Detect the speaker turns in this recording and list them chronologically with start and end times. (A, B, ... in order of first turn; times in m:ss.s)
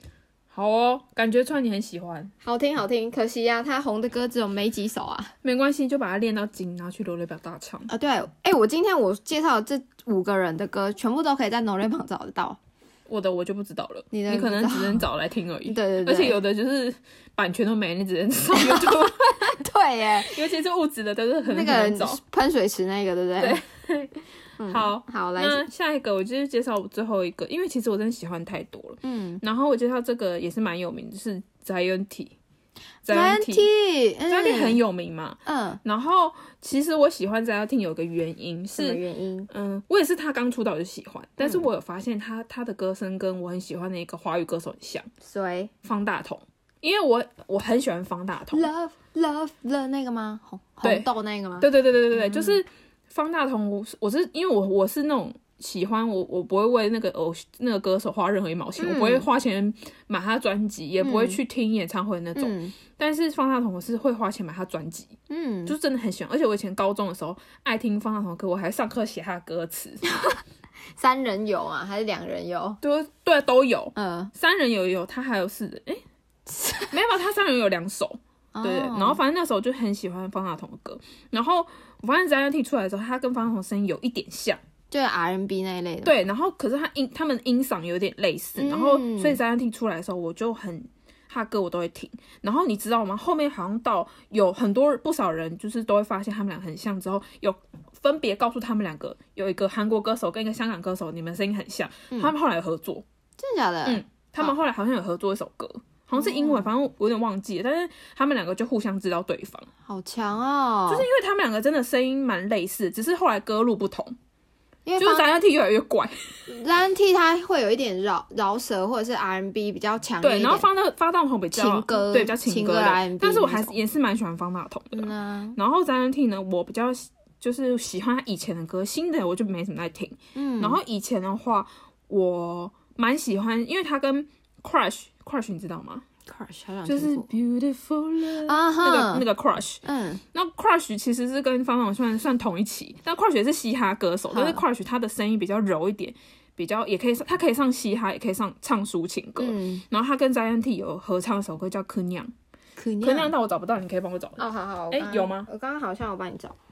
0:00.5-0:02.3 A
0:02.4-0:05.3 B
0:05.4-0:07.9 A
0:07.9-0:12.6 B
0:13.1-0:19.6 A
0:14.1-0:15.0 B
0:15.7-0:16.4 B
0:18.5-0:20.4 B
0:20.2-0:22.2 A
0:21.5-0:23.6 B
0:23.4-0:32.4 A
0:24.6-0:25.7 B
0:29.0-0:29.4 B
0:33.0-0:33.7 A
0:33.1-0:34.8 B
0:34.3-0:45.1 A
0:35.5-0:35.8 B
0:38.8-0:39.5 B
0:45.2-0:45.7 B
0:45.8-0:48.7 A
0:48.5-0:52.6 B
0:50.8-0:51.1 A
0:51.6-1:05.2 A
0:58.8-0:59.3 B
1:01.0-1:01.4 B
1:02.4-1:02.8 B
1:05.3-1:05.8 B
1:05.7-1:10.0 A
1:10.0-1:10.4 B
1:11.0-1:12.8 B
1:12.8-1:16.0 A
1:14.0-1:14.3 B
1:16.5-1:16.9 B
1:16.9-1:24.6 A
1:18.6-1:19.2 B
1:24.9-1:26.2 B
1:26.0-1:43.0 A
1:28.6-1:29.4 B
1:43.4-1:44.5 B
1:43.8-1:49.7 A
1:46.2-1:46.7 B
1:49.9-1:51.1 B
1:50.9-1:54.2 A
1:54.9-1:55.3 B
1:55.0-1:56.5 A
1:56.5-2:00.7 B
2:00.2-2:16.0 A
2:01.5-2:03.8 B
2:04.9-2:05.6 B
2:10.4-2:10.8 B
2:16.3-2:17.3 B
2:16.9-2:19.8 A
2:18.4-2:19.2 B
2:19.8-2:20.2 B
2:20.3-2:32.3 A
2:24.3-2:24.6 B
2:29.4-2:29.8 B
2:32.8-2:33.3 B
2:33.0-2:35.5 A
2:34.4-2:36.6 B